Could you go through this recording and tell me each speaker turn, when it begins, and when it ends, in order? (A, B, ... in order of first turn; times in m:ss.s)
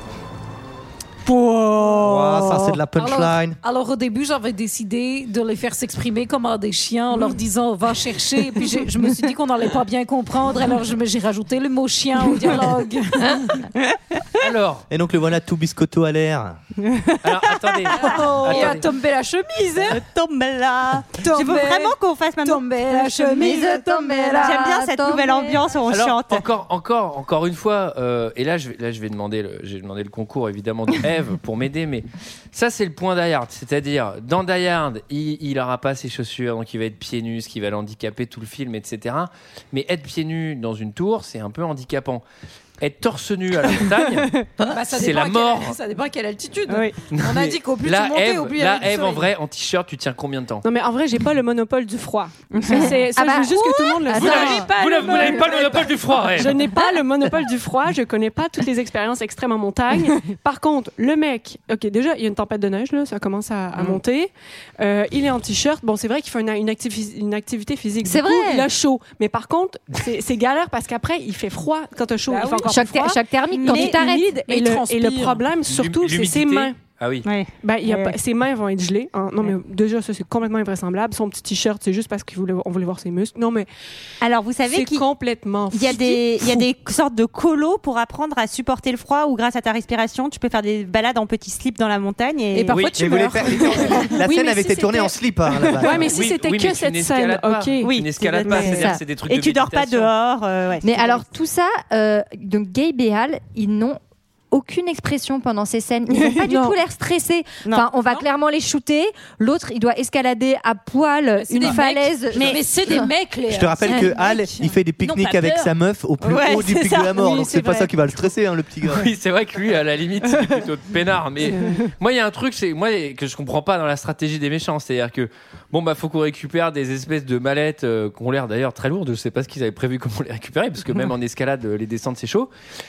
0:01.3-0:02.5 A
0:01.8-0:03.6 B
0:02.9-0:13.7 C
0:14.4-0:14.8 D
0:14.9-0:16.6 B
0:16.8-0:18.6 A
0:17.2-0:18.8 D
0:17.9-0:20.0 C
0:19.9-0:26.4 A
0:21.1-0:24.7 C
0:23.4-0:25.6 E
0:25.9-0:42.2 D
0:42.8-0:45.8 D
0:44.7-0:49.3 C
0:46.7-0:47.0 A
0:47.1-0:50.6 D
0:50.6-0:54.6 F
0:52.5-0:53.0 A
0:53.1-0:54.7 E
0:54.1-0:56.4 C
0:54.1-0:56.6 D
0:56.3-1:16.8 F
1:08.0-1:08.7 E
1:12.3-1:12.7 C
1:12.7-1:14.4 E
1:13.5-1:14.0 A
1:13.6-1:15.4 C
1:15.7-1:17.3 D
1:17.2-1:18.2 A
1:17.6-1:23.7 F
1:24.2-1:25.0 A
1:24.7-1:26.6 F
1:25.7-1:32.8 A
1:32.5-1:35.1 C
1:32.7-1:33.0 D
1:33.0-1:36.1 B
1:35.7-1:37.9 F
1:36.0-1:40.1 D
1:37.8-1:41.2 A
1:38.6-1:39.0 E
1:40.8-1:44.0 E
1:44.5-1:53.1 E
1:46.4-1:46.7 F
1:47.6-1:47.9 A
1:51.4-1:55.7 C
1:52.3-1:52.6 A
1:53.5-1:59.1 B
1:56.2-1:57.9 A
1:58.8-2:12.5 D
2:01.5-2:01.8 F